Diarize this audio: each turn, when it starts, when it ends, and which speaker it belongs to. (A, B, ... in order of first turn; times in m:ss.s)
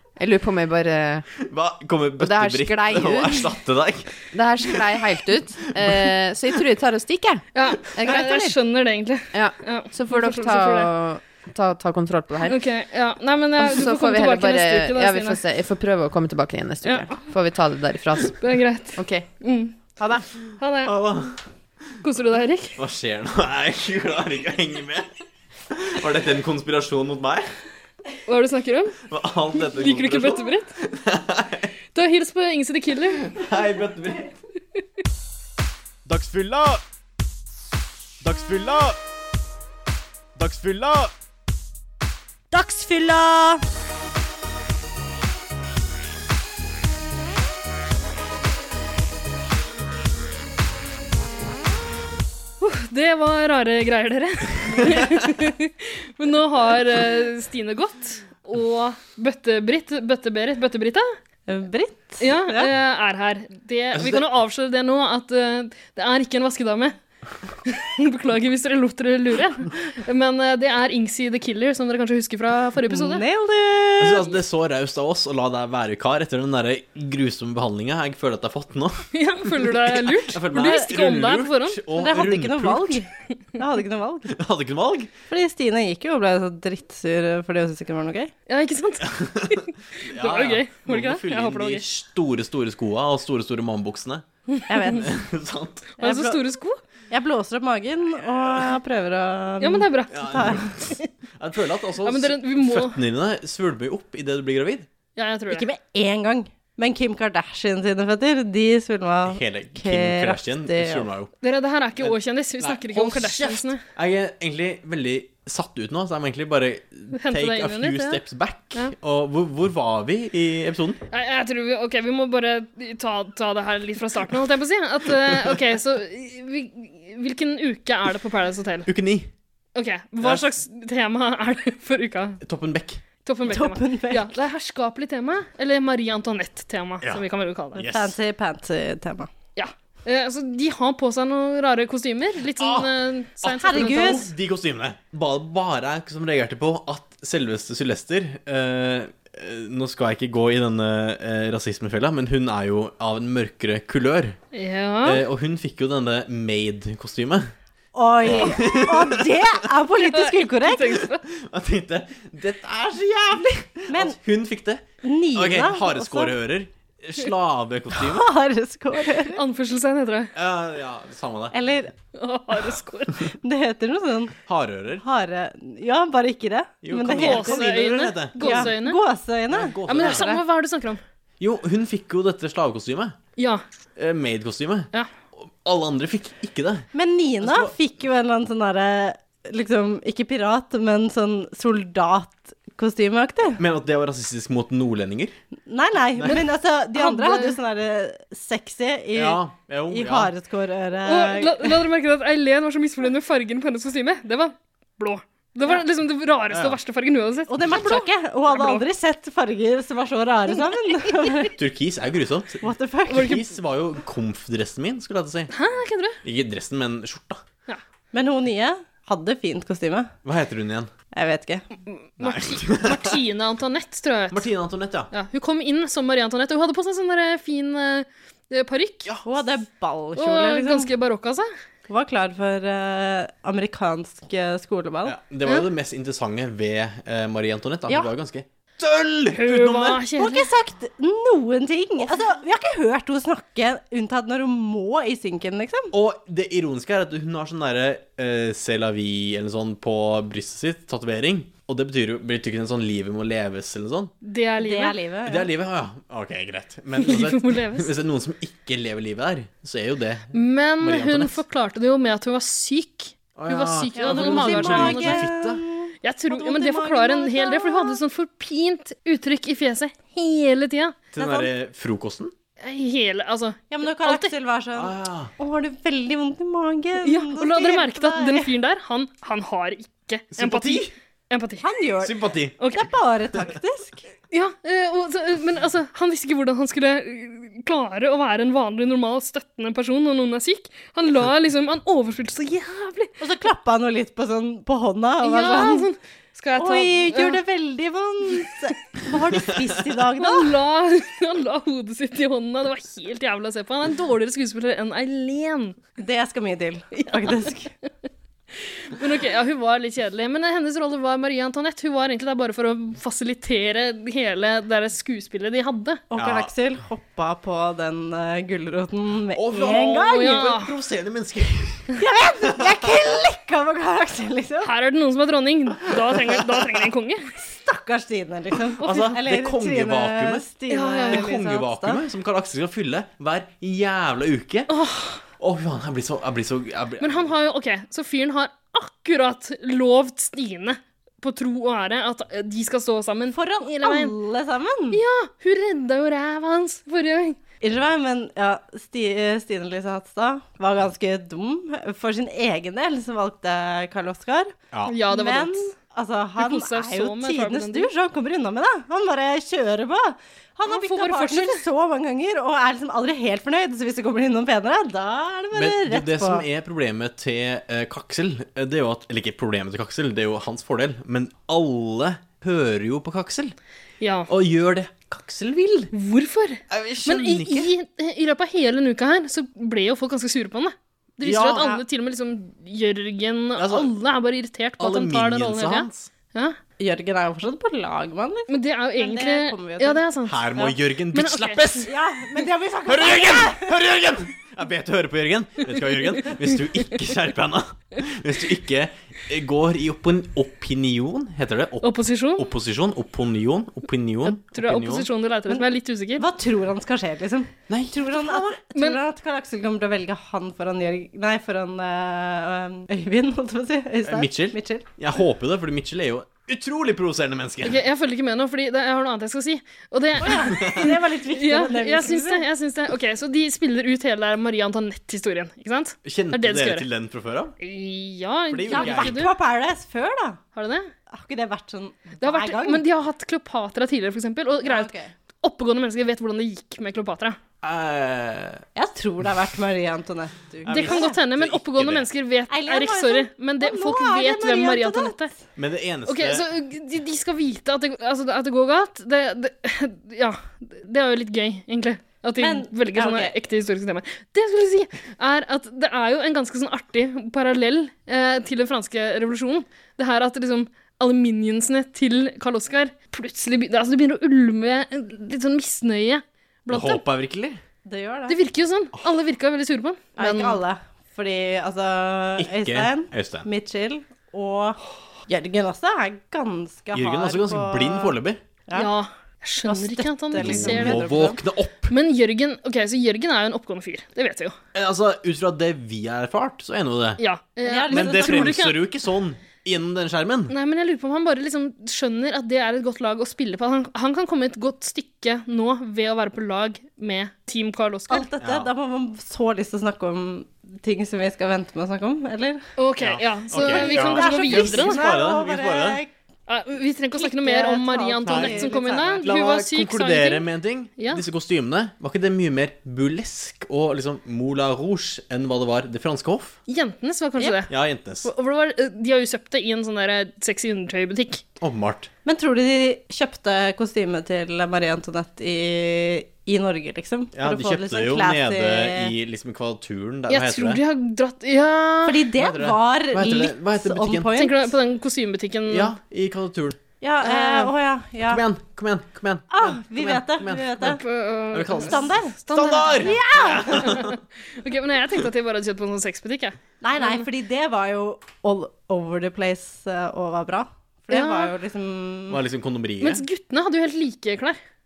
0:00.2-0:01.3 A
0:01.5-0:04.2 B
0:02.2-0:03.5 A
0:04.3-0:08.6 A
0:07.5-0:10.9 C
0:09.3-0:12.6 A
0:12.5-0:15.4 C
0:13.6-0:19.3 A
0:16.8-0:17.1 C
0:18.4-0:19.7 C
0:20.0-0:20.2 A
0:20.6-0:20.9 C
0:20.8-0:21.4 B
0:22.0-0:22.8 C
0:22.8-0:25.1 B
0:25.7-0:27.5 B
0:28.3-0:29.0 C
0:29.1-0:31.7 B
0:29.5-0:30.7 C
0:31.9-0:33.3 C
0:33.3-0:34.3 B
0:36.1-0:36.8 B
0:38.2-0:39.0 B
0:40.4-0:41.1 B
0:42.5-0:43.6 D
0:52.6-1:01.0 C
1:01.5-1:02.7 D
1:02.2-1:06.9 C
1:03.9-1:04.2 B
1:07.7-1:13.2 C
1:12.8-1:14.3 D
1:14.0-1:19.0 B
1:19.1-1:21.8 C
1:19.6-1:23.0 B
1:21.9-1:24.3 D
1:24.3-1:25.1 B
1:25.3-1:28.3 D
1:28.5-1:31.8 C
1:29.0-1:34.2 B
1:34.7-1:35.1 D
1:34.9-1:35.9 B
1:36.0-1:36.4 D
1:36.0-1:36.8 C
1:37.1-1:40.8 D
1:39.6-1:40.4 C
1:40.1-1:44.9 B
1:42.0-1:43.0 C
1:45.2-1:45.6 C
1:45.5-1:51.1 D
1:49.3-1:51.3 B
1:51.4-1:53.8 C
1:52.0-2:01.0 B
1:57.1-1:58.2 C
2:01.1-2:08.9 C
2:08.9-2:09.3 B
2:09.7-2:12.4 C
2:12.4-2:13.0 B
2:13.2-2:17.8 C
2:13.5-2:14.4 D
2:17.7-2:18.2 B
2:17.9-2:19.3 D
2:19.6-2:24.3 C
2:22.6-2:22.9 B
2:23.4-2:34.4 B
2:23.5-2:24.2 D
2:34.5-2:35.2 C
2:35.0-2:37.5 B
2:37.9-2:41.0 D
2:38.2-2:39.4 B
2:40.1-2:41.2 C
2:41.3-2:48.3 B
2:43.9-2:44.2 D
2:45.0-2:46.3 D
2:48.0-2:49.4 D
2:49.3-2:50.3 C
2:50.3-2:51.6 B
2:51.5-2:51.9 D
2:52.1-2:53.3 C
2:53.4-2:54.4 D
2:54.5-2:55.0 B
2:55.0-2:57.7 D
2:56.8-2:58.7 B
2:57.1-2:59.0 C
2:58.4-3:00.4 D
2:59.5-3:00.4 B
2:59.9-3:01.0 C
3:01.4-3:03.2 B
3:03.4-3:03.6 C
3:04.0-3:06.9 B
3:06.9-3:13.6 D
3:07.4-3:07.7 B
3:13.6-3:15.3 B
3:15.6-3:21.7 D
3:16.2-3:16.4 B
3:16.9-3:17.6 C
3:19.1-3:20.3 B
3:21.0-3:28.8 C
3:26.5-3:26.8 B
3:27.5-3:31.5 D
3:31.5-3:35.5 B
3:32.6-3:33.4 D
3:35.5-3:36.2 C
3:36.2-3:37.4 B
3:38.1-3:40.1 D
3:40.2-3:40.9 B
3:41.1-3:41.6 D
3:41.9-3:44.5 C
3:42.2-3:43.2 B
3:44.3-3:45.1 B
3:45.1-3:49.1 C
3:49.2-3:50.9 D
3:50.2-3:51.5 C
3:51.9-3:55.1 D
3:55.0-4:00.0 B
3:59.3-4:00.5 C
4:00.2-4:05.9 D
4:05.9-4:14.1 B
4:14.2-4:15.0 C
4:14.6-4:15.5 D
4:15.2-4:21.4 B
4:17.0-4:17.9 C
4:20.3-4:25.3 C
4:23.4-4:25.6 B
4:24.0-4:28.0 D
4:26.0-4:31.0 C
4:31.1-4:32.3 B
4:31.1-4:31.5 D
4:32.6-4:34.3 C
4:33.7-4:38.5 D
4:34.8-4:35.3 B
4:37.0-4:41.7 C
4:40.3-4:40.9 B
4:41.6-4:44.0 D
4:42.0-4:42.6 B
4:42.6-4:42.9 C
4:44.3-4:53.1 C
4:53.2-4:55.9 D
4:55.2-4:57.4 C
4:56.6-5:00.5 D
5:00.2-5:05.8 C
5:06.0-5:07.7 D
5:06.9-5:07.5 C
5:08.9-5:16.0 C
5:16.1-5:20.4 D
5:16.2-5:16.5 B
5:19.3-5:22.0 B
5:20.1-5:20.7 C
5:22.0-5:24.7 D
5:24.6-5:27.2 C
5:27.4-5:32.0 D
5:28.8-5:30.5 B
5:30.7-5:31.3 C
5:31.1-5:34.7 B
5:34.7-5:35.2 C
5:35.4-5:37.3 B
5:37.0-5:44.1 C
5:43.3-5:45.0 D
5:44.9-5:47.4 C
5:47.6-6:06.4 D
5:54.9-5:55.7 C
5:56.4-5:57.9 C
6:00.6-6:01.6 C
6:05.5-6:13.5 B
6:14.0-6:14.3 C
6:14.3-6:15.9 B
6:15.9-6:26.6 C
6:16.7-6:17.7 B
6:21.2-6:21.8 B
6:23.6-6:23.9 B
6:24.8-6:26.1 B
6:26.8-6:30.7 D
6:28.5-6:31.8 C
6:30.3-6:31.9 B
6:31.8-6:33.7 D
6:32.9-6:45.1 B
6:41.8-6:42.5 C
6:44.2-6:46.2 C
6:46.2-6:54.8 D
6:47.7-6:48.4 B
6:54.0-6:57.8 B
6:57.6-7:06.9 C
7:00.2-7:02.4 D
7:00.5-7:00.8 B
7:06.0-7:07.5 B
7:07.6-7:09.3 C
7:08.5-7:09.2 B
7:08.7-7:10.4 D
7:10.5-7:10.9 C
7:11.1-7:12.8 D
7:12.2-7:14.9 C
7:14.6-7:15.1 D
7:15.4-7:17.4 C
7:17.6-7:18.6 B
7:18.7-7:21.2 D
7:20.6-7:22.0 B
7:20.7-7:25.3 C
7:22.5-7:25.2 D
7:25.6-7:26.4 B
7:26.1-7:47.0 C
7:32.4-7:33.3 D
7:46.7-7:47.6 B
7:47.8-7:48.4 D
7:48.3-7:50.6 C
7:50.2-7:58.2 D
7:52.4-7:53.5 B
7:56.9-7:58.4 B
7:58.7-7:58.9 D
7:58.7-8:01.2 C
7:59.6-8:01.4 D
8:00.3-8:01.9 B
8:01.9-8:04.6 C
8:04.7-8:07.2 B
8:07.2-8:08.8 C
8:07.6-8:08.6 D
8:07.9-8:10.5 B
8:10.5-8:18.2 C
8:18.1-8:22.6 D
8:18.4-8:18.7 B
8:22.8-8:25.1 C
8:23.0-8:26.0 B
8:23.5-8:26.1 D
8:26.5-8:30.4 C
8:27.1-8:29.2 D
8:28.2-8:36.6 B
8:31.0-8:31.2 C
8:36.7-8:37.7 C
8:37.7-8:38.3 B
8:38.2-8:41.4 C
8:41.6-8:42.1 B
8:42.2-8:49.1 D
8:47.3-8:50.8 B
8:50.3-8:52.3 C
8:52.0-8:54.7 D
8:52.3-8:54.3 B
8:54.4-8:55.9 C
8:55.7-8:56.8 B
8:57.0-8:58.4 D
8:58.3-9:04.1 B
8:59.5-9:01.0 D
9:01.0-9:07.2 C
9:01.7-9:02.4 D
9:03.0-9:03.9 D
9:06.8-9:12.4 D
9:11.1-9:11.5 C
9:12.3-9:13.2 B
9:13.0-9:14.6 C